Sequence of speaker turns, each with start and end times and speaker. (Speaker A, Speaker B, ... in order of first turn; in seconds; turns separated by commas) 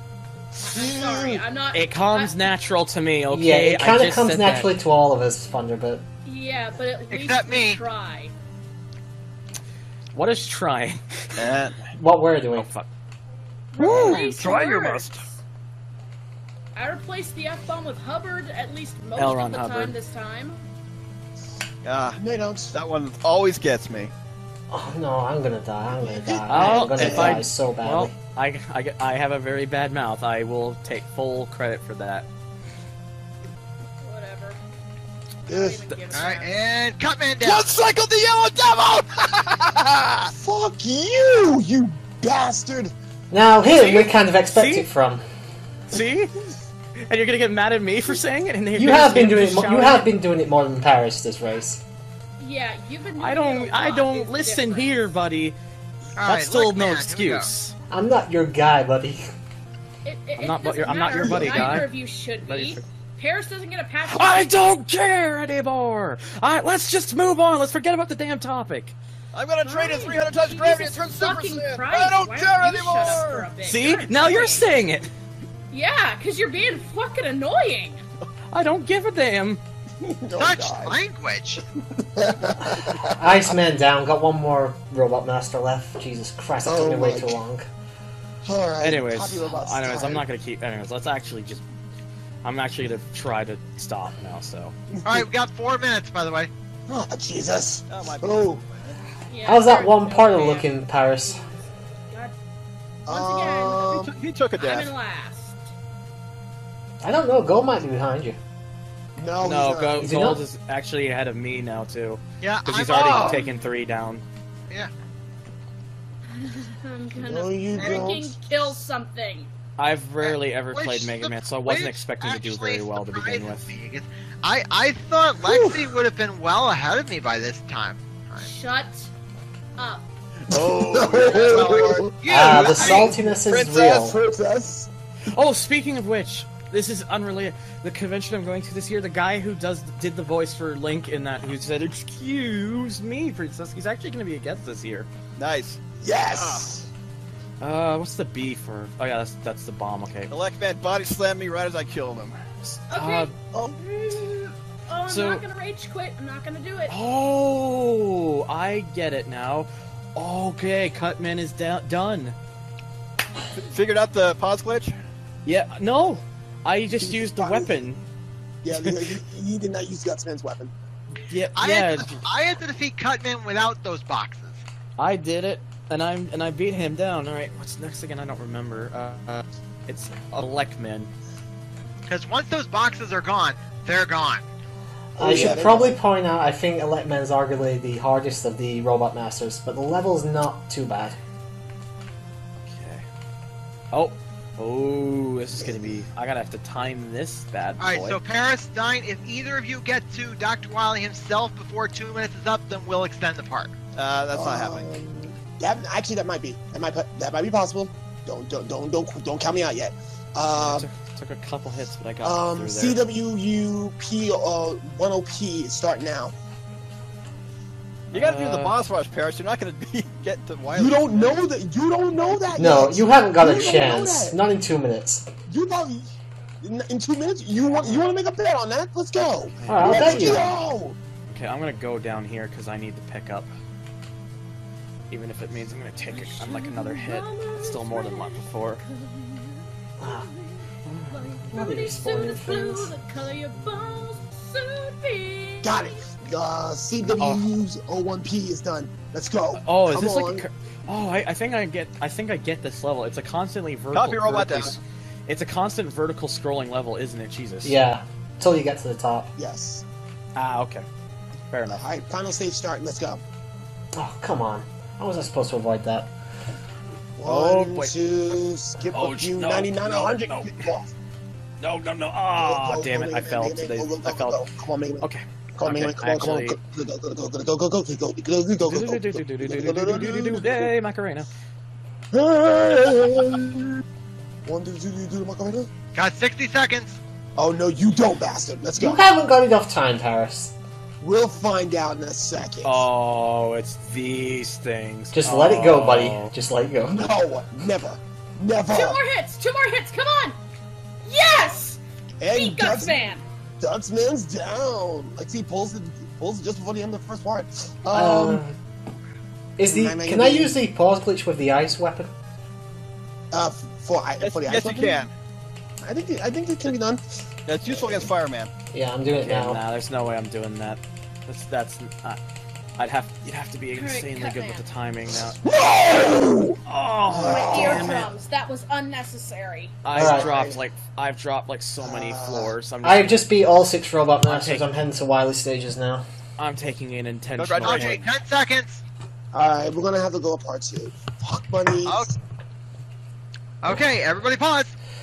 Speaker A: 0.5-1.4, Speaker B: 0.6-2.4, Speaker C: 1.7-4.7, Speaker D: 3.3-6.0, Speaker B: 6.2-8.3, Speaker E: 7.1-7.8, Speaker C: 10.1-11.4, Speaker F: 11.4-11.8, Speaker D: 11.9-12.7, Speaker C: 12.5-12.9, Speaker B: 13.7-15.4, Speaker C: 13.8-14.8, Speaker F: 13.8-15.2, Speaker B: 16.8-20.6, Speaker C: 19.1-19.9, Speaker F: 21.8-22.2, Speaker A: 22.2-22.8, Speaker F: 22.7-24.1, Speaker D: 24.7-28.1, Speaker A: 25.9-27.4, Speaker C: 26.5-32.3, Speaker B: 34.0-34.6, Speaker B: 35.5-36.6, Speaker A: 35.5-35.8, Speaker E: 36.1-37.7, Speaker F: 37.4-40.3, Speaker A: 40.2-42.9, Speaker D: 43.3-45.2, Speaker C: 44.5-44.9, Speaker C: 45.9-46.3, Speaker C: 47.0-50.1, Speaker D: 48.7-51.8, Speaker B: 52.4-55.0, Speaker C: 53.2-55.5, Speaker E: 56.2-57.5, Speaker C: 56.2-57.7, Speaker D: 57.9-59.3, Speaker B: 60.0-64.5, Speaker C: 60.4-62.9, Speaker A: 61.1-61.8, Speaker C: 64.0-68.9, Speaker F: 69.3-73.5, Speaker B: 69.6-74.7, Speaker C: 73.6-75.1, Speaker B: 75.7-78.0, Speaker C: 78.5-79.6, Speaker A: 80.0-81.0, Speaker E: 80.4-81.6, Speaker A: 82.0-83.5, Speaker D: 82.6-87.7, Speaker A: 86.6-87.4, Speaker A: 88.4-90.2, Speaker C: 88.8-91.6, Speaker C: 92.4-94.7, Speaker A: 95.0-95.3, Speaker E: 95.0-96.5, Speaker A: 96.9-98.6, Speaker F: 97.9-99.0, Speaker B: 99.3-100.7, Speaker D: 99.4-101.4, Speaker B: 102.1-102.3, Speaker B: 103.1-104.0, Speaker A: 103.1-104.1, Speaker F: 103.9-104.9, Speaker B: 104.6-105.6, Speaker D: 107.0-108.4, Speaker A: 109.2-110.2, Speaker C: 109.4-114.2, Speaker D: 110.0-110.4, Speaker E: 112.4-113.5, Speaker A: 113.0-113.4, Speaker B: 116.3-119.5, Speaker A: 117.2-118.7, Speaker E: 117.8-118.1, Speaker C: 119.8-123.7, Speaker E: 120.2-128.4, Speaker A: 125.4-126.0, Speaker B: 128.4-129.1, Speaker B: 129.8-130.1, Speaker F: 130.5-134.1, Speaker A: 130.5-133.2, Speaker E: 131.4-133.1, Speaker D: 132.3-134.2, Speaker A: 134.1-134.9, Speaker C: 135.3-145.1, Speaker F: 145.4-145.8, Speaker A: 146.0-146.9, Speaker F: 146.3-146.6, Speaker C: 147.6-150.3, Speaker F: 150.3-152.3, Speaker C: 152.6-153.3, Speaker B: 152.9-156.9, Speaker C: 155.1-155.4, Speaker C: 156.9-162.3, Speaker F: 163.7-164.9, Speaker C: 165.4-168.0, Speaker A: 166.9-167.8, Speaker A: 168.6-170.7, Speaker C: 168.7-169.1, Speaker C: 171.2-172.2, Speaker E: 171.6-174.6, Speaker C: 175.0-181.1, Speaker E: 182.1-184.4, Speaker D: 185.2-191.2, Speaker A: 185.2-186.0, Speaker C: 192.6-193.1, Speaker C: 193.9-198.2, Speaker A: 195.5-196.0, Speaker E: 197.8-203.7, Speaker F: 203.9-204.9, Speaker A: 204.3-210.9, Speaker C: 210.5-213.0, Speaker A: 212.2-216.3, Speaker C: 218.1-218.7, Speaker F: 218.1-221.4, Speaker A: 220.7-224.4, Speaker D: 222.5-225.2, Speaker A: 225.5-231.0, Speaker C: 227.8-228.1, Speaker D: 229.7-230.5, Speaker C: 229.8-230.5, Speaker C: 231.3-233.5, Speaker C: 235.1-238.8, Speaker B: 236.1-246.0, Speaker D: 240.0-240.2, Speaker C: 240.8-241.3, Speaker D: 241.5-242.9, Speaker A: 245.6-250.4, Speaker C: 247.0-247.4, Speaker C: 249.6-257.8, Speaker F: 253.9-254.8, Speaker D: 257.6-259.3, Speaker A: 259.4-259.8, Speaker C: 260.4-260.9, Speaker C: 261.5-261.8, Speaker A: 261.7-263.2, Speaker D: 263.9-266.1, Speaker A: 267.2-270.9, Speaker C: 267.2-268.0, Speaker C: 268.9-270.7, Speaker C: 271.6-274.4, Speaker A: 272.4-280.7, Speaker C: 275.0-276.6, Speaker C: 278.6-281.3, Speaker A: 282.1-283.8, Speaker A: 284.4-285.7, Speaker E: 285.9-287.0, Speaker A: 287.4-289.0, Speaker D: 288.8-290.5, Speaker A: 291.0-292.8, Speaker C: 292.6-296.3, Speaker D: 295.1-297.0, Speaker A: 296.9-299.0, Speaker B: 298.7-300.4, Speaker B: 301.0-301.8, Speaker A: 302.2-303.1, Speaker B: 302.3-303.2, Speaker A: 303.6-308.4, Speaker D: 307.9-308.5, Speaker D: 309.6-312.1, Speaker A: 309.7-310.5, Speaker A: 313.3-315.0, Speaker F: 314.2-315.1, Speaker A: 315.8-318.1, Speaker F: 317.5-318.5, Speaker D: 318.7-319.6, Speaker C: 319.2-322.2, Speaker C: 322.8-325.4, Speaker B: 323.7-324.7, Speaker A: 325.4-328.0, Speaker C: 326.6-328.1, Speaker B: 327.2-329.8, Speaker C: 329.8-333.3, Speaker A: 329.9-330.6, Speaker D: 329.9-330.3, Speaker A: 331.8-332.6, Speaker D: 332.8-336.0, Speaker C: 334.2-334.6, Speaker C: 336.4-338.0, Speaker F: 337.4-338.1, Speaker E: 337.6-338.8, Speaker A: 339.3-342.2, Speaker E: 343.6-344.7